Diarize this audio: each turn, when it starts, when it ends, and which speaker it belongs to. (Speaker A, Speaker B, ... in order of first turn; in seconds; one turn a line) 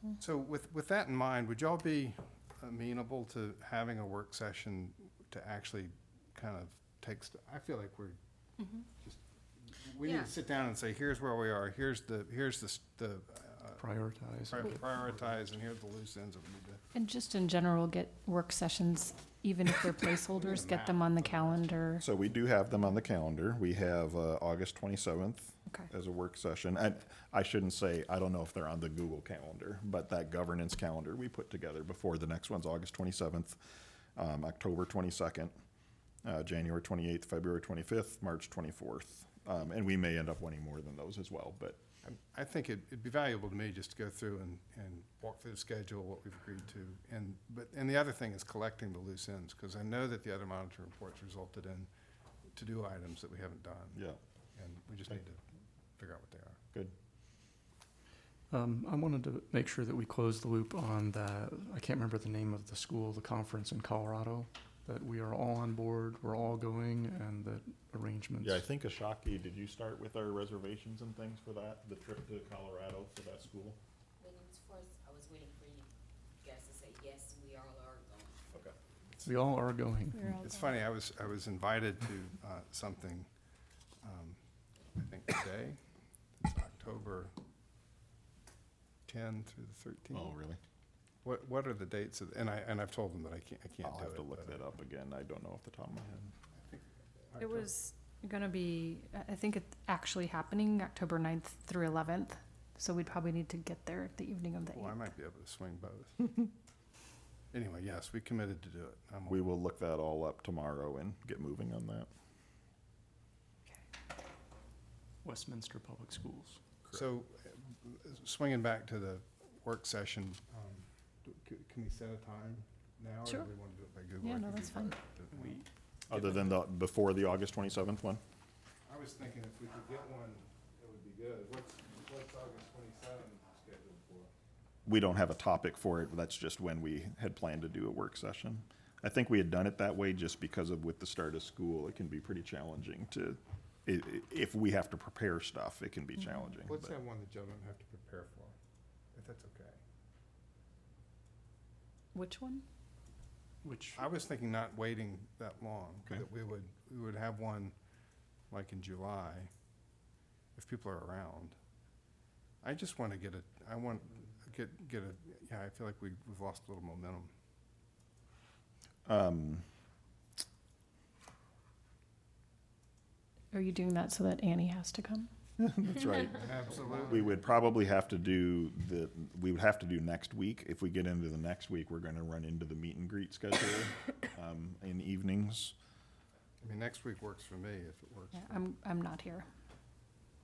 Speaker A: 0.2-8.2
Speaker A: 8.8-13.8
Speaker B: 13.8-14.8
Speaker A: 14.5-16.8
Speaker C: 16.9-22.0
Speaker A: 20.3-21.9
Speaker D: 22.0-33.6
Speaker D: 34.1-35.5
Speaker D: 36.2-41.8
Speaker A: 42.0-51.9
Speaker A: 52.5-54.0
Speaker D: 53.9-54.2
Speaker A: 54.5-55.4
Speaker A: 56.0-56.6
Speaker B: 58.5-68.6
Speaker D: 68.4-73.8
Speaker E: 74.2-75.9
Speaker E: 76.4-78.4
Speaker B: 79.2-80.2
Speaker C: 80.1-80.6
Speaker A: 80.4-83.3
Speaker A: 84.0-84.4
Speaker A: 85.0-85.8
Speaker A: 86.4-87.3
Speaker A: 89.1-90.3
Speaker D: 90.1-90.6
Speaker A: 91.2-94.6
Speaker D: 93.8-96.3
Speaker A: 96.5-97.7
Speaker C: 97.4-104.9
Speaker A: 104.7-106.3
Speaker A: 107.5-109.5
Speaker D: 109.3-112.1
Speaker B: 115.2-116.6
Speaker A: 116.9-125.5
Speaker C: 124.2-125.0
Speaker B: 125.3-125.7
Speaker D: 126.1-128.2
Speaker A: 128.8-134.3
Speaker D: 134.8-146.9
Speaker A: 146.6-148.5
Speaker A: 149.1-149.8
Speaker C: 152.1-152.6
Speaker B: 153.6-154.0
Speaker A: 153.9-157.7
Speaker A: 158.5-159.5
Speaker A: 160.5-161.5
Speaker A: 162.6-167.3
Speaker D: 169.1-169.7
Speaker C: 173.5-175.3
Speaker D: 175.6-185.7
Speaker A: 176.3-177.4
Speaker A: 186.6-188.6
Speaker C: 188.3-189.5